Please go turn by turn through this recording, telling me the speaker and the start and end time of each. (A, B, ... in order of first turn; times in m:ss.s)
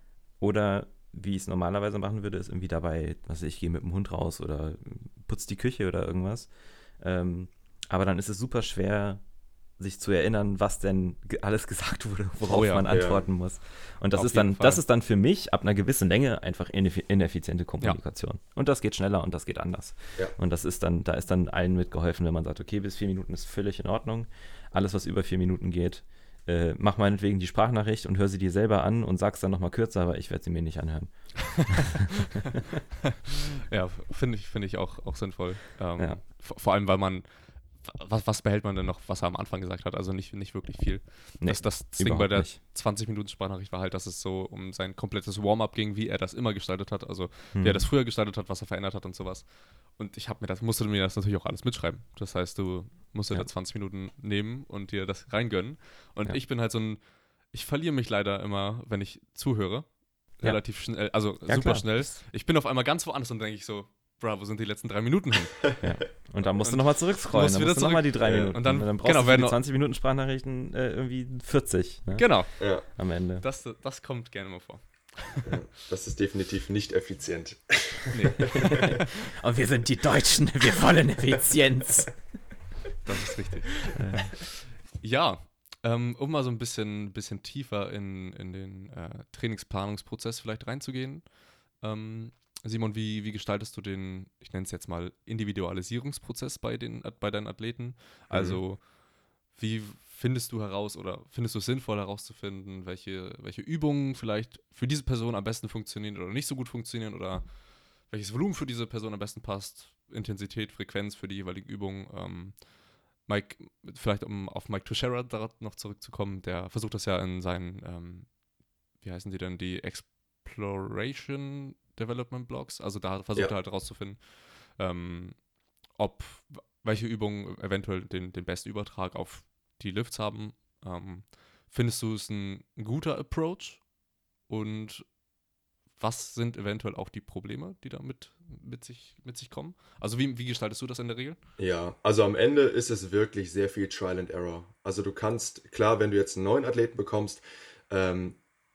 0:00.4-0:09.2 A
0:09.8-0:32.1 A
0:12.4-0:12.9 B
0:12.9-0:13.2 C
0:14.2-0:14.8 B
0:33.7-1:09.6 B
0:41.4-0:42.6 A
0:47.5-0:47.9 A
1:00.4-1:02.1 A
1:05.8-1:13.4 A
1:08.2-1:08.6 C
1:12.1-1:15.5 B
1:12.6-1:12.8 C
1:15.4-1:18.9 C
1:18.1-1:19.1 B
1:18.6-1:22.3 A
1:23.0-1:38.9 B
1:23.9-1:24.3 A
1:38.3-1:38.6 C
1:39.5-1:58.4 B
1:58.9-2:13.9 B
2:14.4-2:15.1 B
2:16.0-2:21.4 B
2:21.6-2:28.4 C